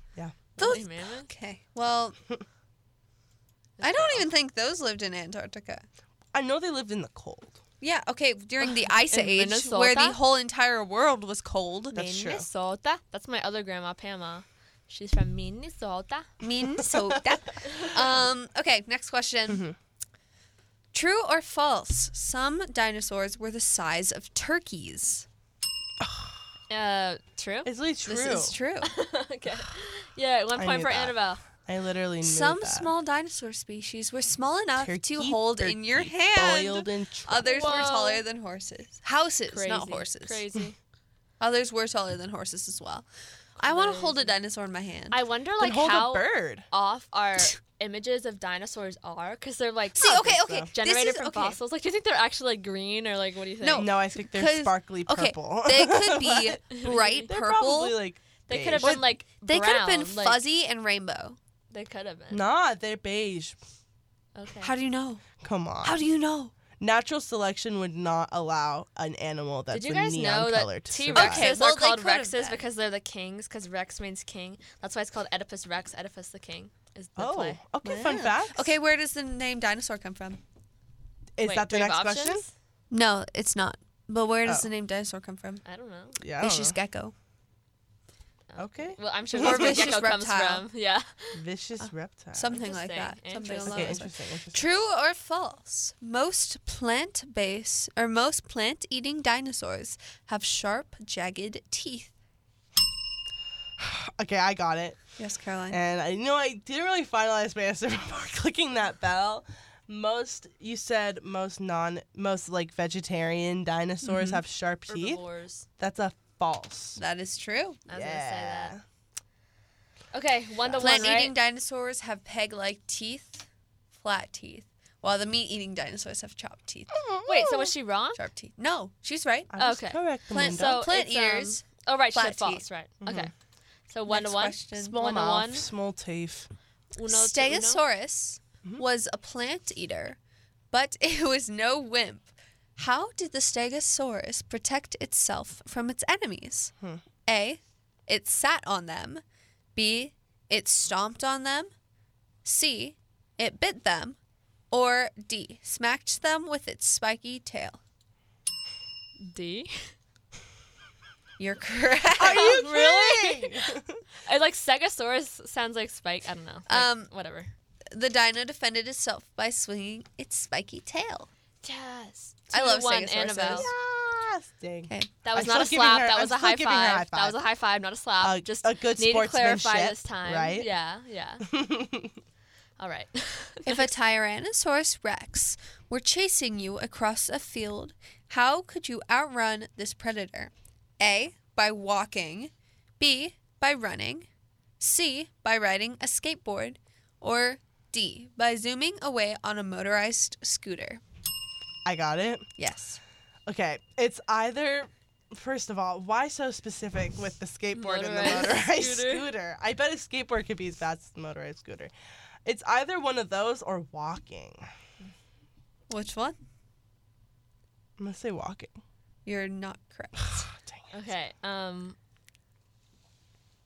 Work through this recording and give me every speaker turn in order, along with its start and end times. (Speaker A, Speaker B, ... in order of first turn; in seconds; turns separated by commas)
Speaker A: 0.6-1.3, Speaker B: 0.6-2.2, Speaker A: 3.8-4.3, Speaker B: 3.8-5.8, Speaker C: 6.3-7.6, Speaker B: 7.8-12.0, Speaker A: 8.6-10.2, Speaker C: 11.9-12.5, Speaker A: 11.9-16.3, Speaker B: 16.4-19.6, Speaker C: 16.7-17.9, Speaker C: 19.5-19.8, Speaker B: 20.9-25.2, Speaker C: 26.0-26.3, Speaker A: 26.7-27.7, Speaker C: 27.6-28.5, Speaker B: 28.0-28.9, Speaker A: 28.8-31.4, Speaker C: 30.6-32.9, Speaker B: 32.2-40.4, Speaker C: 34.8-37.5, Speaker A: 37.4-38.2, Speaker A: 39.5-40.8, Speaker B: 41.4-43.1, Speaker B: 43.6-45.2, Speaker A: 43.6-44.3, Speaker A: 45.1-53.9, Speaker C: 45.6-46.6, Speaker B: 50.0-51.6, Speaker C: 50.0-50.7, Speaker B: 53.6-58.0, Speaker C: 53.8-59.1, Speaker A: 56.7-57.2, Speaker A: 58.5-60.4, Speaker B: 58.8-61.4, Speaker A: 61.7-62.4, Speaker C: 62.3-63.6, Speaker A: 64.3-64.7, Speaker B: 64.6-65.2, Speaker C: 65.4-66.0, Speaker B: 65.8-66.5, Speaker C: 66.8-71.5, Speaker A: 69.7-77.6, Speaker B: 71.1-72.6, Speaker C: 77.2-78.7, Speaker B: 77.8-80.4, Speaker C: 81.3-82.4, Speaker A: 81.4-82.5, Speaker B: 82.9-85.6, Speaker A: 85.6-86.2, Speaker C: 86.2-86.8, Speaker B: 86.4-87.1, Speaker A: 88.5-91.4, Speaker C: 88.6-89.9, Speaker B: 89.4-90.7, Speaker C: 91.3-92.6, Speaker B: 91.8-102.1, Speaker A: 92.5-94.0, Speaker C: 93.6-94.6, Speaker C: 103.8-105.0, Speaker B: 105.2-105.8, Speaker C: 105.7-115.2, Speaker B: 114.0-114.4, Speaker A: 114.9-115.7, Speaker C: 115.8-117.0, Speaker B: 117.0-117.8, Speaker A: 117.9-118.7, Speaker C: 117.9-118.8, Speaker A: 120.1-121.3, Speaker B: 120.8-127.0, Speaker C: 126.9-127.7, Speaker A: 127.2-128.2, Speaker B: 128.1-129.6, Speaker C: 129.5-130.8, Speaker A: 129.6-133.3, Speaker B: 130.3-132.6, Speaker C: 133.0-133.3, Speaker A: 133.9-135.7, Speaker B: 134.1-135.0, Speaker C: 134.8-136.5, Speaker A: 136.9-137.8, Speaker B: 137.1-140.2, Speaker B: 140.7-146.7, Speaker B: 147.2-149.2, Speaker B: 149.8-151.7, Speaker B: 152.4-154.2, Speaker B: 154.7-157.8, Speaker A: 159.2-159.8, Speaker B: 161.4-162.6, Speaker C: 162.2-164.0, Speaker A: 162.3-163.7, Speaker A: 164.2-167.5, Speaker B: 166.7-167.1, Speaker B: 167.9-171.3, Speaker A: 171.6-173.7, Speaker B: 172.5-173.7, Speaker C: 173.5-177.4, Speaker A: 175.2-181.4, Speaker C: 178.2-180.7, Speaker C: 181.5-182.1, Speaker A: 182.8-183.9, Speaker B: 183.7-194.3, Speaker B: 194.8-201.0, Speaker C: 201.8-202.5, Speaker B: 202.6-203.0, Speaker C: 203.5-211.9, Speaker A: 207.7-209.2, Speaker C: 212.4-214.7, Speaker B: 215.9-216.4, Speaker C: 218.0-218.7, Speaker B: 219.2-220.4, Speaker C: 220.2-220.8, Speaker A: 220.9-222.0